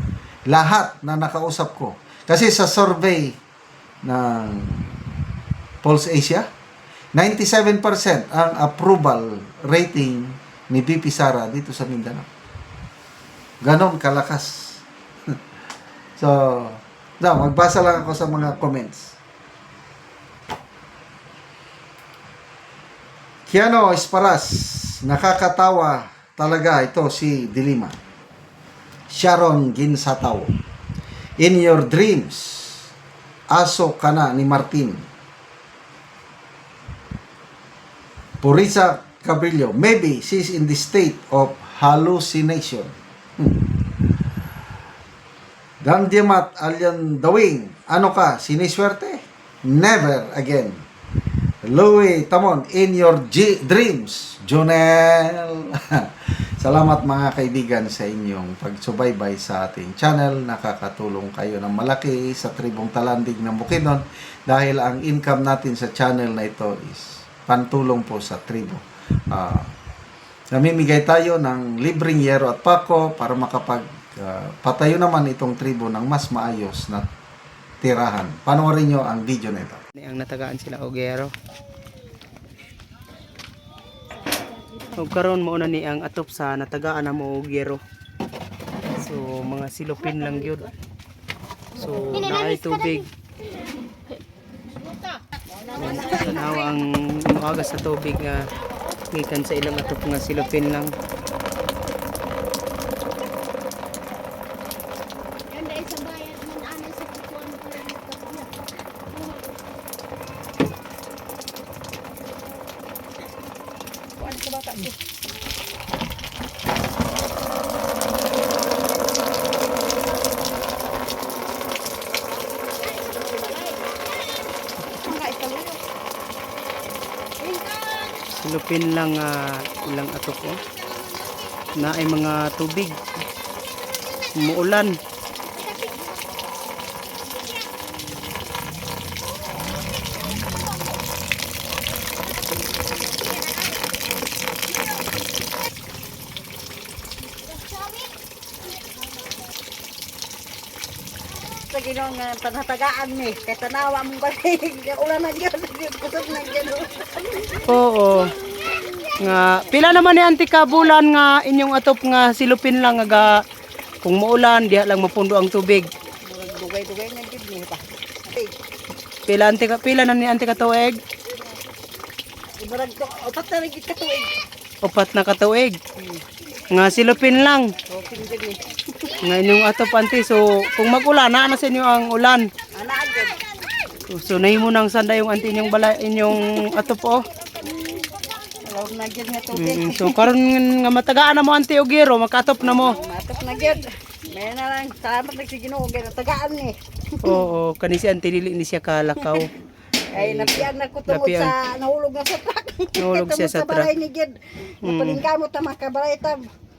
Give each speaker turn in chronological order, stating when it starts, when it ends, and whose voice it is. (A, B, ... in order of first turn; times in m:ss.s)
0:00.5-0:03.4 A
0:04.0-0:05.1 A
0:05.8-0:06.5 A
0:07.1-0:12.3 A
0:13.6-0:14.8 A
0:16.2-0:19.2 A
0:23.5-0:28.0 A
0:29.1-0:30.5 A
0:31.4-0:32.9 A
0:33.5-0:35.0 A
0:38.4-0:43.6 A
0:45.8-0:50.8 A
0:51.6-0:56.1 A
0:56.6-1:09.7 A
1:10.5-1:17.1 A
1:17.8-1:19.8 A
1:20.0-1:21.3 B
1:25.0-1:27.8 B
1:29.0-1:30.7 B
1:31.8-1:33.1 B
1:35.7-1:38.5 B
1:35.8-1:36.3 C
1:39.1-1:40.9 B
1:45.6-1:48.2 D
1:54.2-1:54.9 C
2:03.2-2:03.7 C
2:05.0-2:05.8 C
2:08.3-2:10.6 B
2:11.7-2:13.0 B
2:14.3-2:15.0 B
2:31.6-2:37.6 C
2:37.6-2:38.4 B
2:39.2-2:43.4 B
2:44.0-2:45.9 B
2:46.3-2:48.5 C
2:49.3-2:51.0 B
2:52.6-2:54.4 C
2:54.8-2:55.8 B
2:56.7-2:57.7 B
2:57.9-2:59.2 C
2:59.2-3:02.5 B
3:02.7-3:03.4 C
3:04.1-3:07.3 B
3:07.6-3:10.3 C
3:09.5-3:13.0 B
3:12.8-3:17.3 C
3:17.2-3:19.5 B
3:20.1-3:21.5 B
3:20.2-3:26.5 C
3:23.0-3:23.9 B
3:24.8-3:25.2 B